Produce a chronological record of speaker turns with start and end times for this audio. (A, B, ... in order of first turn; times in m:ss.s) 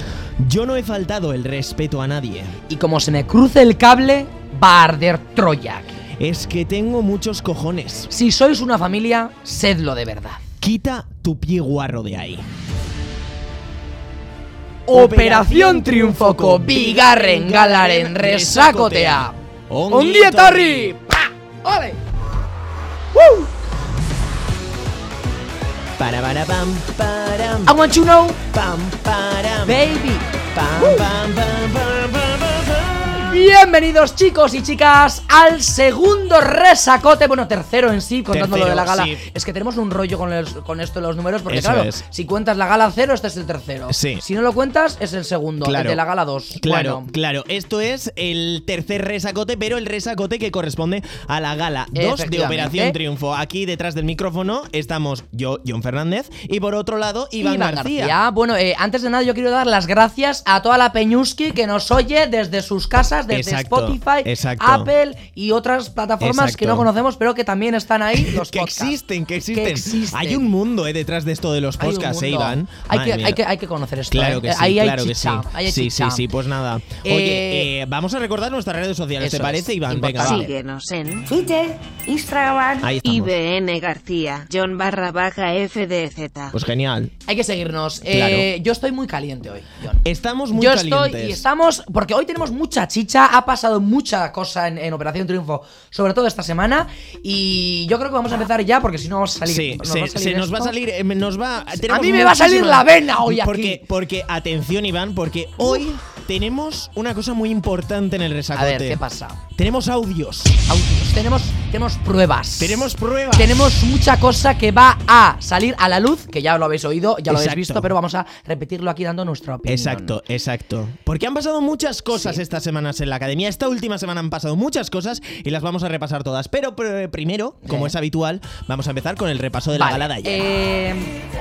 0:00.4-0:02.6 A
0:02.7-0:06.0 B
0:06.2-0:08.1 A
0:08.1-0:10.4 B
0:10.6-0:12.5 A
0:14.9-0:21.0 A
0:14.9-0:19.4 B
0:19.9-0:22.0 B
0:23.2-0:23.5 B
0:26.0-0:27.8 A
0:27.7-0:28.4 B
0:28.5-0:29.8 A
0:29.6-0:30.3 B
0:30.5-0:33.3 A
0:30.8-0:31.1 B
0:33.2-0:47.1 B
0:38.3-0:39.3 A
0:41.5-0:42.0 A
0:43.9-0:44.2 A
0:45.6-0:46.0 A
0:46.6-0:58.2 A
0:51.9-0:53.0 B
0:57.4-1:09.0 B
1:03.3-1:04.9 A
1:06.2-1:06.9 A
1:08.2-1:13.4 A
1:09.5-1:10.5 B
1:11.8-1:16.3 B
1:14.1-1:20.5 A
1:17.0-1:17.7 B
1:19.2-1:20.5 B
1:20.2-1:26.6 C
1:22.8-1:23.3 A
1:26.5-1:27.1 A
1:27.3-1:40.8 B
1:28.1-1:28.5 A
1:30.0-1:31.4 A
1:39.5-1:49.0 A
1:41.7-1:43.8 B
1:48.6-1:49.4 B
1:49.6-1:50.6 A
1:50.6-2:00.2 B
1:52.6-1:53.6 A
1:57.3-1:57.9 A
1:59.6-2:10.4 A
2:02.1-2:02.4 B
2:07.6-2:07.9 B
2:09.7-2:11.2 B